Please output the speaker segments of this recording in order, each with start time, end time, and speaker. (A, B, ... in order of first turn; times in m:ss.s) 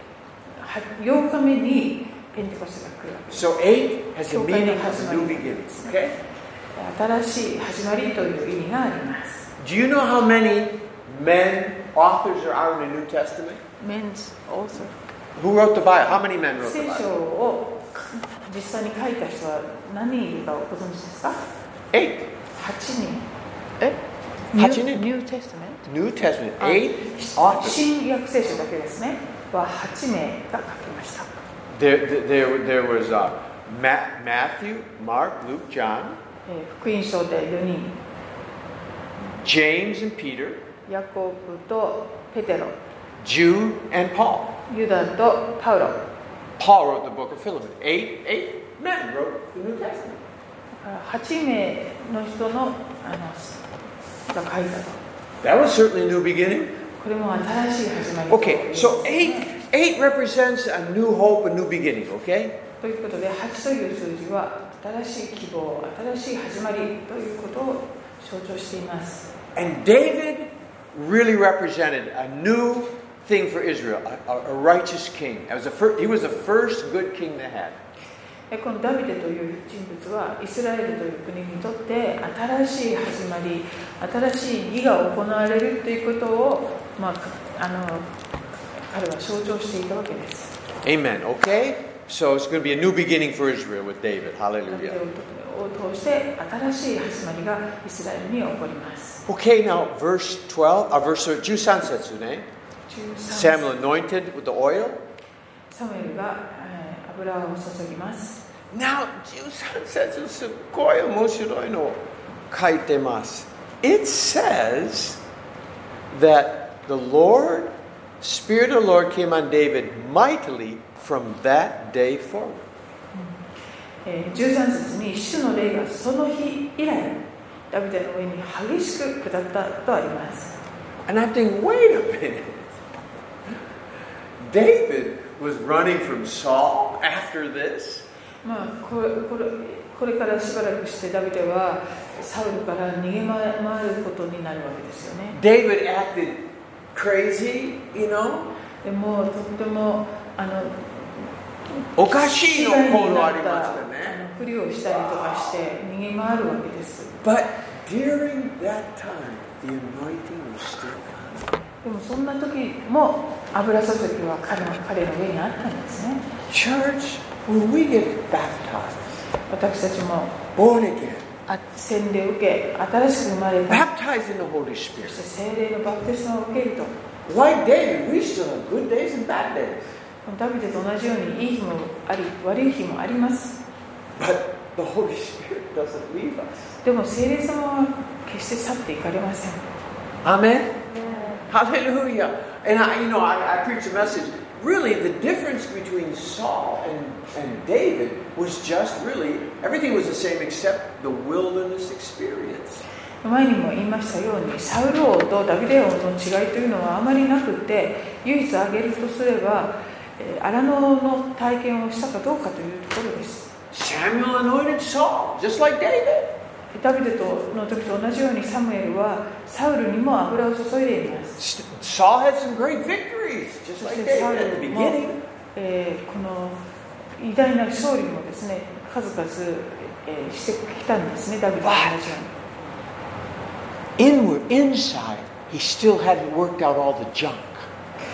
0:00.6-0:03.5 A
0:03.3-0:06.2 B
0:04.3-0:05.9 A
0:06.8-0:09.5 A
0:09.6-0:13.6 B
0:13.8-0:15.0 A
0:15.4-0:17.1 B
0:16.6-0:21.5 A
0:21.9-0:22.3 B
0:22.6-0:23.2 A
0:24.5-0:25.8 A
0:24.6-0:25.0 B
0:25.8-0:27.8 B
0:26.6-0:31.3 A
0:31.7-0:36.2 B
0:36.5-0:38.0 A
0:39.4-0:40.6 B
0:40.9-0:42.8 A
0:43.2-0:44.6 B
0:44.7-0:46.0 A
0:46.6-0:50.2 B
0:50.8-0:53.7 A
0:54.3-0:55.0 A
0:55.4-0:56.7 B
0:57.0-0:59.5 A
0:58.3-1:02.6 B
1:02.8-1:09.3 A
1:09.5-1:17.8 B
1:18.5-1:28.1 A
1:28.9-1:30.5 A
1:30.8-1:35.0 B
1:34.7-1:39.2 A
1:39.3-1:42.5 B
1:42.9-1:43.6 A
1:43.3-1:45.0 B
1:45.7-1:48.4 A
1:48.7-1:55.2 B
1:56.1-2:02.7 B
2:04.0-2:10.6 A
2:11.0-2:13.5 B
2:14.4-2:18.0 B
2:18.4-2:25.4 A
2:25.3-2:28.5 B
2:28.8-2:31.3 A
2:31.8-2:37.2 A
2:32.0-2:34.2 B
2:34.9-2:35.6 B
2:37.2-2:41.5 B
2:41.8-2:46.2 A
2:46.5-2:49.2 B
2:49.5-2:50.4 A
2:50.6-2:51.3 B
2:51.5-2:53.9 A
2:53.7-2:55.2 B
2:55.0-2:56.9 A
2:57.2-2:59.9 B
3:00.2-3:03.6 A
3:04.2-3:06.8 B
3:06.8-3:09.6 A
3:10.2-3:10.8 B
3:11.4-3:22.8 B
3:23.2-3:33.5 A
3:33.7-3:36.3 B
3:36.7-3:41.4 A
3:41.4-3:45.2 B
3:43.8-3:46.6 A
3:47.2-3:52.3 A
3:51.6-3:52.1 B
3:54.0-3:57.7 B